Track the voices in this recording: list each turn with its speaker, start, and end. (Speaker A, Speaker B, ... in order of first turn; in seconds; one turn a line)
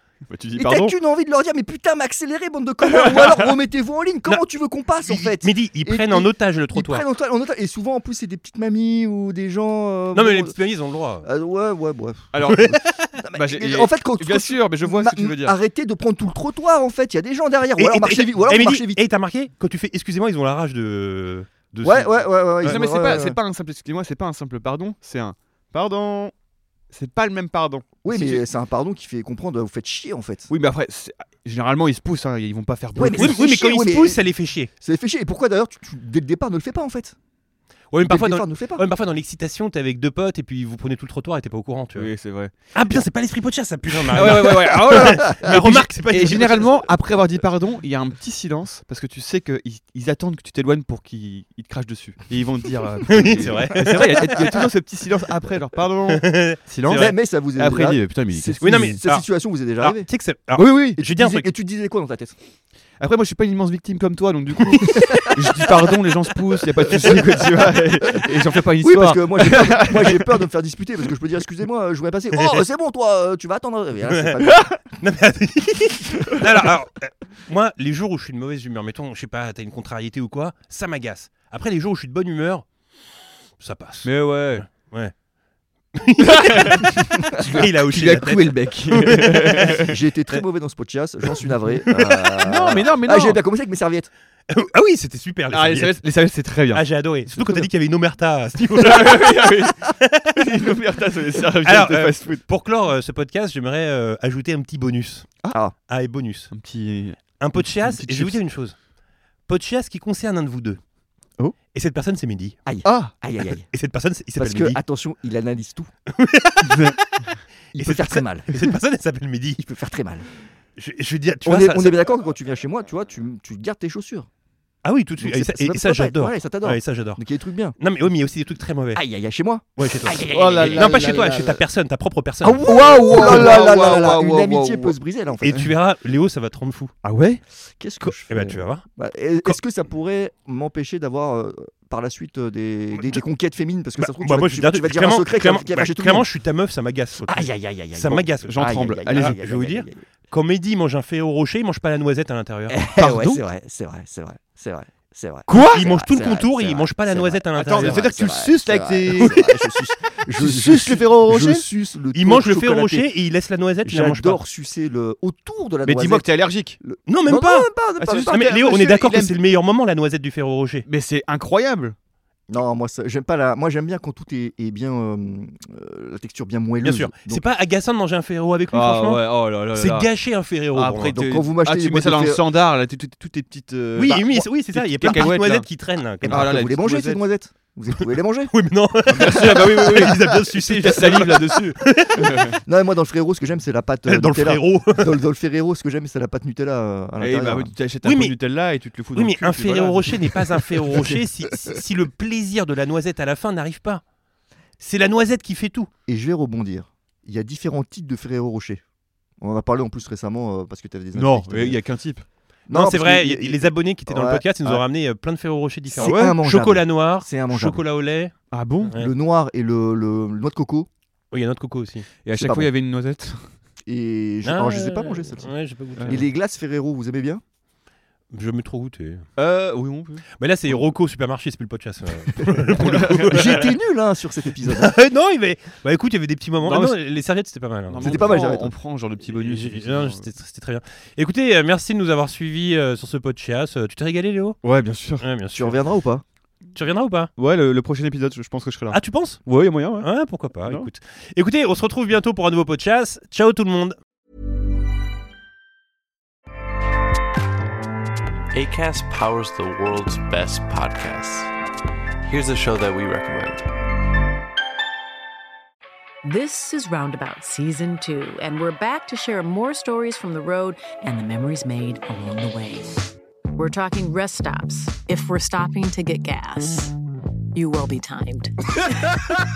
Speaker A: 0.3-0.9
Speaker B: 0.6-10.5
Speaker A: 2.9-3.4
Speaker C: 5.0-7.0
Speaker C: 10.1-11.2
Speaker B: 11.2-19.0
Speaker A: 12.3-15.6
Speaker C: 12.4-12.9
Speaker C: 17.8-22.8
Speaker B: 21.8-23.4
Speaker A: 22.6-26.3
Speaker A: 26.9-28.4
Speaker B: 28.0-30.5
Speaker A: 30.5-33.4
Speaker B: 32.9-34.2
Speaker C: 33.1-34.7
Speaker B: 34.8-37.1
Speaker C: 37.9-42.1
Speaker B: 38.0-38.8
Speaker A: 41.9-42.5
Speaker C: 42.7-46.9
Speaker A: 44.1-59.0
Speaker B: 44.9-45.8
Speaker C: 53.1-54.6
Speaker C: 56.1-57.1
Speaker B: 56.9-60.1
Speaker C: 58.6-61.5
Speaker A: 60.5-61.0
Speaker B: 61.0-62.3
Speaker A: 63.0-70.3
Speaker B: 66.9-67.4
Speaker B: 68.8-74.8
Speaker C: 75.0-82.7
Speaker C: 83.6-85.1
Speaker A: 84.0-84.7
Speaker C: 85.9-89.8
Speaker A: 86.2-89.9
Speaker B: 89.8-94.1
Speaker C: 91.9-92.4
Speaker A: 92.4-93.4
Speaker C: 94.5-96.0
Speaker A: 95.5-97.7
Speaker C: 96.7-100.3
Speaker A: 98.8-99.8
Speaker A: 100.3-102.4
Speaker C: 101.6-105.3
Speaker C: 105.9-106.5
Speaker A: 106.5-108.4
Speaker C: 107.4-108.8
Speaker C: 109.5-110.8
Speaker C: 111.7-112.5
Speaker B: 112.7-113.7
Speaker A: 112.8-113.1
Speaker C: 113.7-114.8
Speaker B: 114.4-115.9
Speaker C: 116.1-117.0
Speaker A: 116.6-117.0
Speaker B: 117.7-118.5
Speaker C: 117.8-119.6
Speaker B: 119.6-120.3
Speaker C: 120.8-122.1
Speaker B: 121.4-124.3
Speaker C: 124.8-127.2
Speaker B: 125.2-127.7
Speaker C: 127.8-129.0
Speaker B: 128.9-131.6
Speaker C: 129.8-133.3
Speaker A: 130.2-131.5
Speaker B: 132.4-135.7
Speaker A: 132.6-134.9
Speaker C: 135.4-136.9
Speaker A: 137.0-137.4
Speaker B: 137.8-146.3
Speaker C: 138.3-138.8
Speaker C: 143.0-143.2
Speaker C: 144.0-152.9
Speaker B: 147.2-150.0
Speaker A: 148.4-149.4
Speaker B: 152.7-163.1
Speaker A: 152.9-153.4
Speaker A: 155.5-155.9
Speaker C: 155.5-158.1
Speaker A: 157.5-159.3
Speaker C: 159.2-159.4
Speaker A: 160.4-161.7
Speaker C: 162.1-164.4
Speaker B: 163.8-168.6
Speaker A: 165.8-166.8
Speaker C: 167.1-167.7
Speaker A: 168.0-169.3
Speaker C: 168.3-170.8
Speaker A: 170.8-171.9
Speaker B: 172.5-177.4
Speaker C: 176.8-181.2
Speaker A: 178.7-180.1
Speaker A: 180.7-185.7
Speaker B: 181.1-182.4
Speaker C: 183.9-186.7
Speaker A: 186.2-187.2
Speaker B: 186.2-188.5
Speaker C: 188.5-192.5
Speaker A: 189.1-192.5
Speaker B: 189.2-190.2
Speaker B: 192.6-197.7
Speaker C: 194.1-195.1
Speaker A: 197.2-201.1
Speaker C: 198.0-198.4
Speaker C: 199.1-204.0
Speaker C: 204.8-205.9
Speaker B: 206.1-208.8
Speaker B: 209.4-211.8
Speaker A: 211.1-212.2
Speaker B: 212.7-214.8
Speaker C: 212.7-218.3
Speaker B: 215.9-217.8
Speaker A: 216.0-216.4
Speaker A: 218.5-218.9
Speaker C: 218.8-219.1
Speaker B: 218.9-220.9
Speaker C: 221.3-222.1
Speaker A: 222.2-223.5
Speaker B: 222.3-222.7
Speaker B: 223.8-225.5
Speaker C: 224.4-226.2
Speaker B: 226.0-227.4
Speaker C: 228.3-229.2
Speaker A: 229.4-230.2
Speaker C: 230.4-233.7
Speaker B: 232.8-234.9
Speaker C: 234.6-238.5
Speaker A: 236.6-237.0
Speaker A: 237.9-240.2
Speaker B: 238.0-238.7
Speaker C: 239.3-244.6
Speaker A: 244.6-245.2
Speaker C: 245.2-245.8
Speaker B: 245.5-246.2
Speaker C: 246.7-247.3
Speaker A: 247.4-250.1
Speaker C: 248.9-249.4
Speaker C: 250.0-253.9
Speaker A: 250.6-250.9
Speaker D: 258.5-261.5
Speaker D: 262.2-263.7
Speaker E: 266.2-276.9
Speaker E: 277.5-278.5